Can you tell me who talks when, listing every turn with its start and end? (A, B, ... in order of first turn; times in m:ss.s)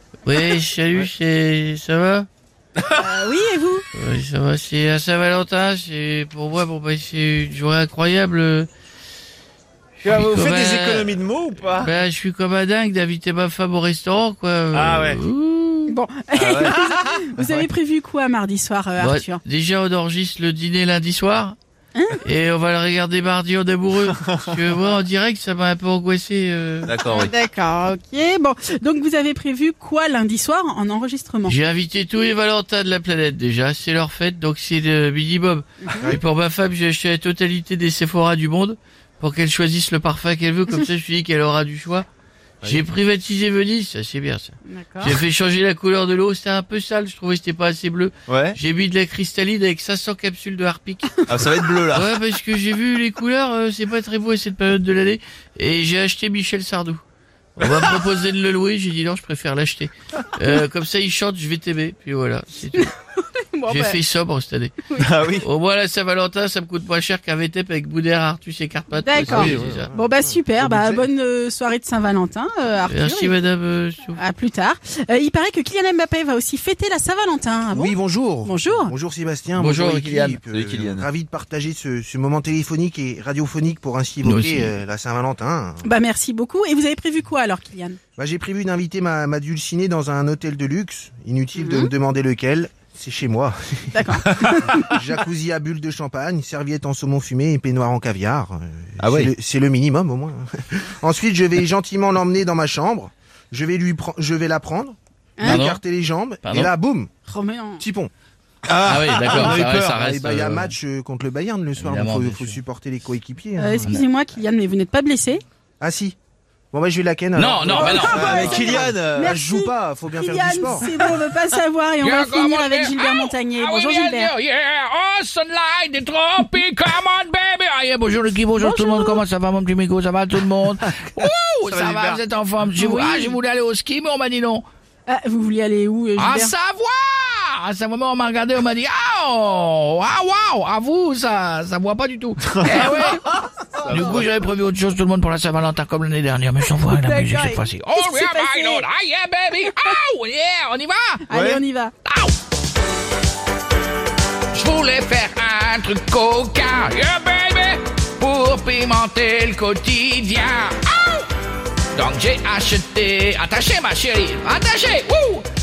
0:00.2-0:02.3 A
0:02.9-0:03.8 B
0:03.9-0:08.7 A
0:10.0-0:11.9 C
0:10.1-0:16.0 A
0:14.7-0:15.2 C
0:15.9-0:19.4 B
0:16.3-0:17.6 C
0:19.0-0:21.6 A
0:22.2-0:27.0 A
0:26.9-0:27.3 C
0:27.0-0:31.6 B
0:31.5-0:42.1 A
0:35.9-0:36.1 B
0:42.6-0:51.3 A
0:44.7-0:45.2 B
0:48.3-0:48.6 C
0:51.3-0:52.1 C
0:51.9-0:57.0 A
0:57.6-1:02.9 A
0:57.6-0:57.9 C
1:02.8-1:04.0 B
1:03.7-1:09.9 A
1:05.0-1:05.5 C
1:09.0-1:13.4 B
1:09.2-1:11.1 D
1:09.3-1:09.8 C
1:12.9-1:14.2 A
1:14.2-1:18.9 B
1:17.7-1:25.9 D
1:19.6-1:20.4 A
1:20.5-1:21.1 C
1:24.2-1:24.7 A
1:25.8-1:28.0 B
1:28.2-1:47.1 D
1:31.6-1:31.9 B
1:33.9-1:35.0 B
1:39.0-1:39.3 C
1:45.4-1:45.7 B
1:45.4-1:45.8 A
1:46.4-1:46.7 A
1:47.3-1:47.8 B
1:47.8-1:48.1 D
1:48.7-1:50.0 C
1:48.8-1:50.8 A
1:49.3-1:54.0 D
1:51.8-1:52.6 A
1:53.6-1:55.4 B
1:55.8-1:56.2 D
1:56.7-2:01.0 D
1:57.4-1:58.6 A
1:57.7-2:04.3 B
1:58.0-1:59.4 C
2:02.1-2:14.6 A
2:08.6-2:09.2 B
2:11.6-2:12.2 C
2:12.7-2:13.4 B
2:15.1-2:16.6 B
2:16.2-2:23.2 A
2:22.5-2:22.8 C
2:23.8-2:24.3 C
2:23.9-2:31.2 A
2:26.8-2:28.9 B
2:29.7-2:29.9 B
2:31.3-2:31.9 B
2:31.3-2:31.6 C
2:34.5-2:41.3 A
2:42.0-2:45.5 A